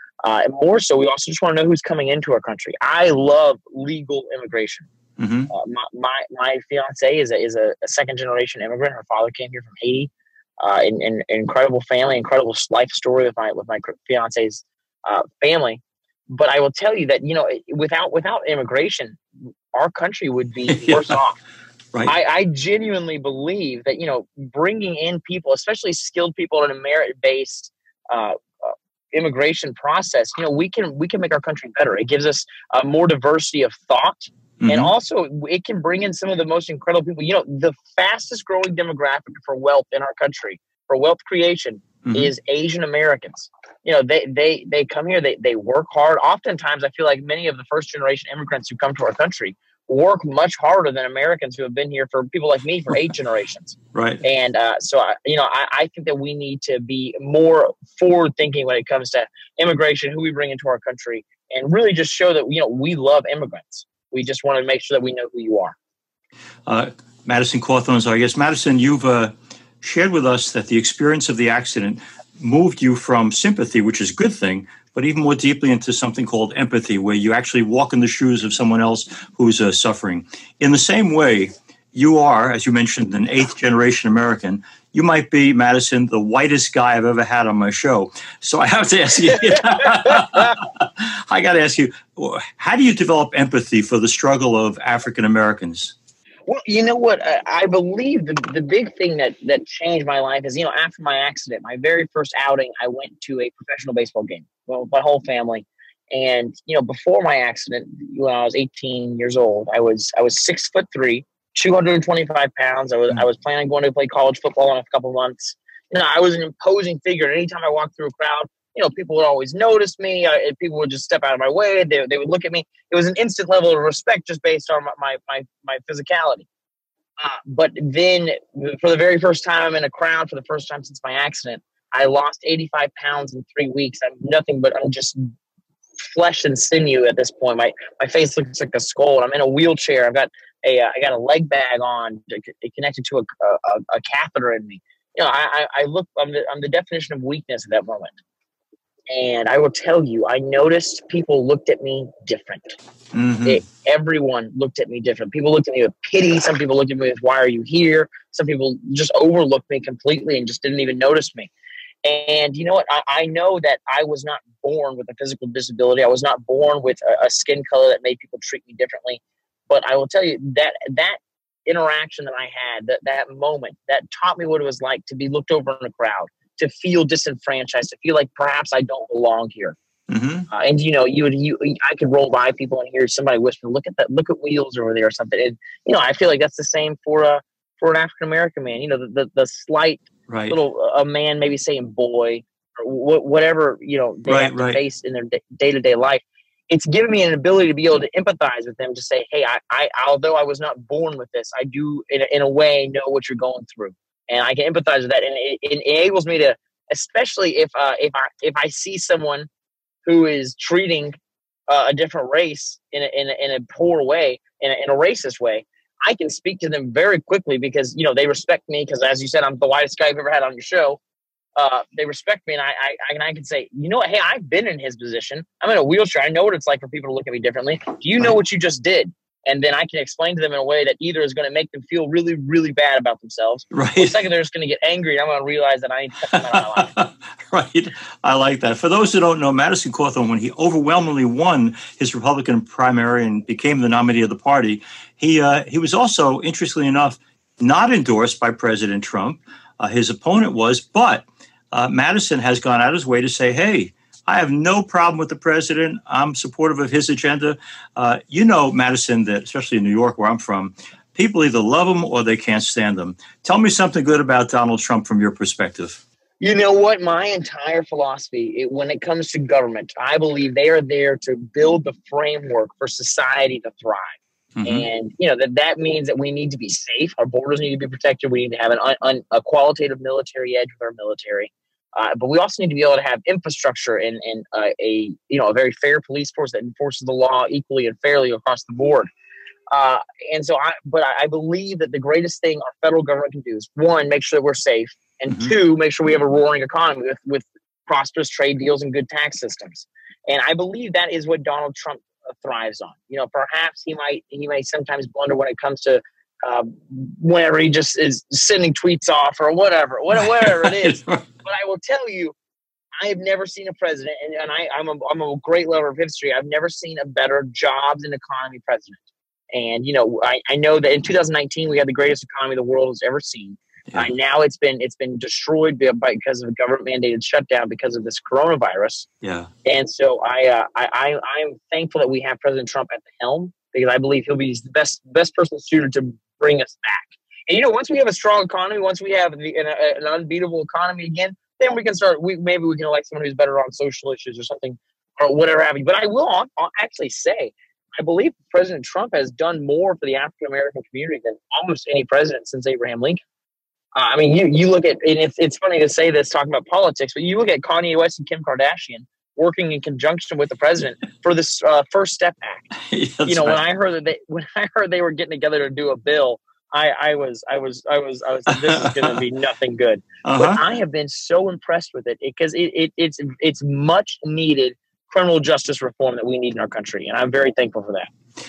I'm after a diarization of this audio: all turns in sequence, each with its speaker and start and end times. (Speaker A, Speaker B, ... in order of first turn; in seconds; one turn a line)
Speaker A: 0.2-4.9
Speaker B: 5.2-5.5
Speaker A: 5.5-19.2
Speaker A: 19.7-21.4
Speaker B: 20.7-21.1
Speaker A: 22.1-65.8
Speaker B: 34.6-34.9
Speaker B: 42.0-42.3
Speaker B: 53.9-54.2
Speaker B: 66.7-96.0
Speaker A: 89.8-90.5
Speaker A: 96.5-126.5
Speaker A: 127.2-135.2
Speaker A: 136.0-148.2
Speaker A: 149.1-152.8
Speaker B: 153.1-153.6
Speaker A: 153.4-161.5
Speaker A: 162.0-179.8
Speaker B: 180.1-180.5
Speaker A: 180.5-209.5
Speaker B: 190.3-190.6
Speaker B: 194.3-194.8
Speaker A: 210.1-211.1
Speaker A: 211.7-221.0
Speaker A: 221.6-236.9
Speaker B: 233.7-234.2
Speaker B: 236.3-266.0
Speaker A: 266.4-289.1
Speaker B: 274.6-274.9
Speaker A: 289.7-312.4
Speaker B: 295.3-295.5
Speaker B: 310.1-311.3
Speaker A: 313.0-329.1
Speaker B: 329.2-329.5
Speaker A: 329.6-353.2
Speaker A: 353.9-362.7
Speaker B: 362.8-363.6
Speaker A: 363.3-378.1
Speaker B: 368.5-369.2
Speaker B: 370.2-370.6